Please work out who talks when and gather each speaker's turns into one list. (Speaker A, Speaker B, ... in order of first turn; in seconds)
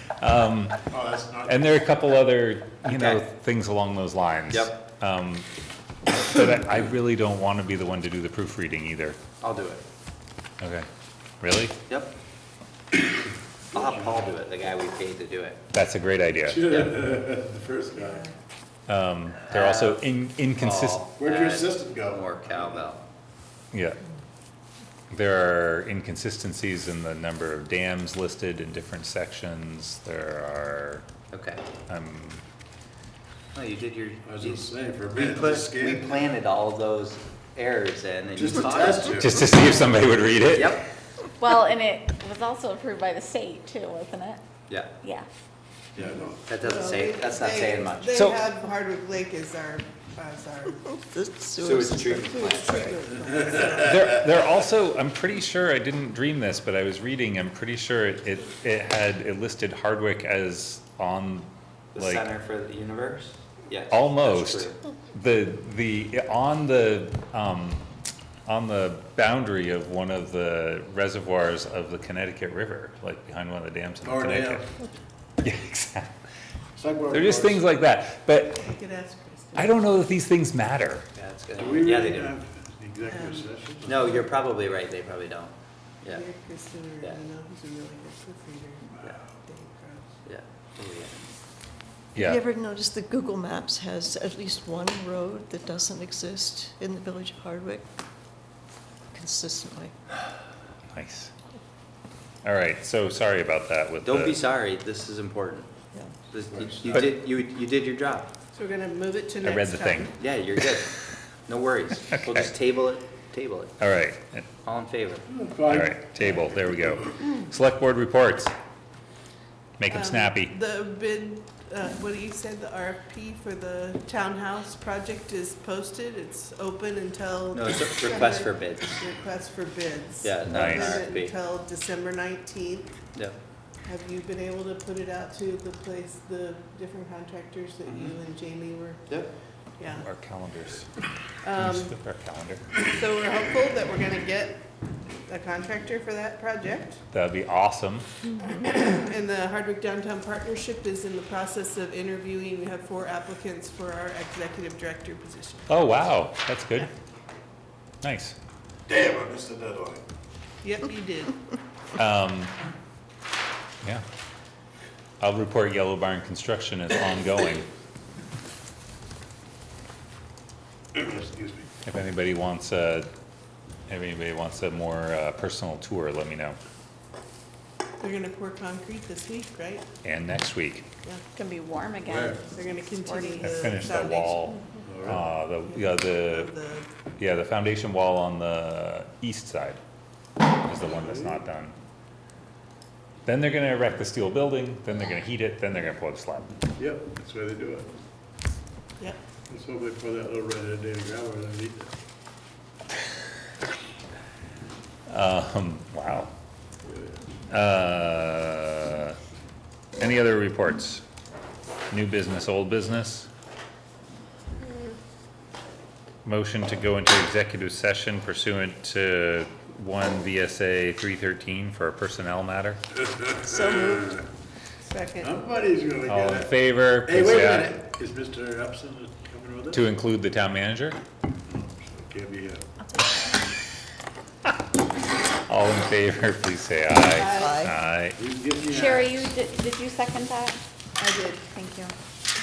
Speaker A: 0.2-0.8, 1.4-5.5, 6.1-9.2, 10.6-10.9, 11.4-11.8, 15.7-16.7, 18.9-21.0, 23.7-24.0, 25.1-31.1, 31.9-32.4, 39.2-40.8, 48.1-48.4, 53.7-62.3, 63.9-67.8, 68.5-74.7, 75.4-76.1, 77.1-78.7, 79.5-81.1, 92.1-92.4, 100.9-101.3, 102.4-104.4, 109.4-110.1, 113.8-114.5, 115.7-118.5, 119.8-120.5, 130.5-131.0, 139.8-140.9, 141.6-142.7, 147.1-148.1, 155.7-156.9, 158.0-158.3, 161.9-162.5, 165.2-167.7, 171.8-173.1, 173.9-176.6, 180.0-180.9, 183.4-186.5, 187.2-189.8, 190.6-191.7, 193.2-196.6, 205.1-206.3, 207.5-209.2, 210.0-211.0, 211.9-213.3, 216.2-222.8, 226.1-227.8, 229.7-231.0, 235.5-238.2
Speaker B: 0.9-1.6, 16.5-18.3, 21.2-22.9, 34.2-36.3, 38.3-39.4, 46.0-46.4, 74.0-74.7, 76.8-77.6, 81.5-84.3, 106.4-107.2, 115.3-116.5, 158.9-160.0, 170.9-171.7, 182.1-182.4, 184.8-185.2, 190.8-191.4, 196.8-197.9, 199.5-201.9, 206.8-207.2, 225.2-229.8, 231.5-232.7, 238.1-239.3
Speaker C: 2.8-3.3, 4.5-4.8, 9.4-9.8, 11.9-12.1, 13.7-15.6, 16.7-17.0, 19.5-20.0, 20.6-23.0, 31.3-31.6, 33.5-39.2, 40.5-40.8, 46.5-48.1, 51.6-53.1, 61.9-64.8, 81.2-82.3, 83.8-86.2, 90.2-91.2, 104.0-105.7, 106.3-108.3, 110.2-110.9, 111.5-113.7, 114.6-115.2, 127.5-129.0, 130.2-131.3
Speaker D: 41.4-44.4, 45.0-45.3, 181.3-182.3, 182.9-183.3, 238.7-240.6, 241.5-241.9
Speaker E: 46.5-50.8, 52.4-54.0, 78.6-79.7, 83.1-83.4, 86.1-90.1, 108.5-110.2, 119.9-132.9, 133.8-139.0, 141.4-141.9, 142.9-144.6, 145.3-147.0, 148.5-155.7, 160.6-161.4, 178.0-179.8, 182.5-184.5, 185.7-186.9, 224.8-225.3, 237.1-237.6, 241.0-241.4
Speaker F: 50.9-52.4, 92.2-97.8, 99.1-99.9, 223.4-224.2, 237.3-237.7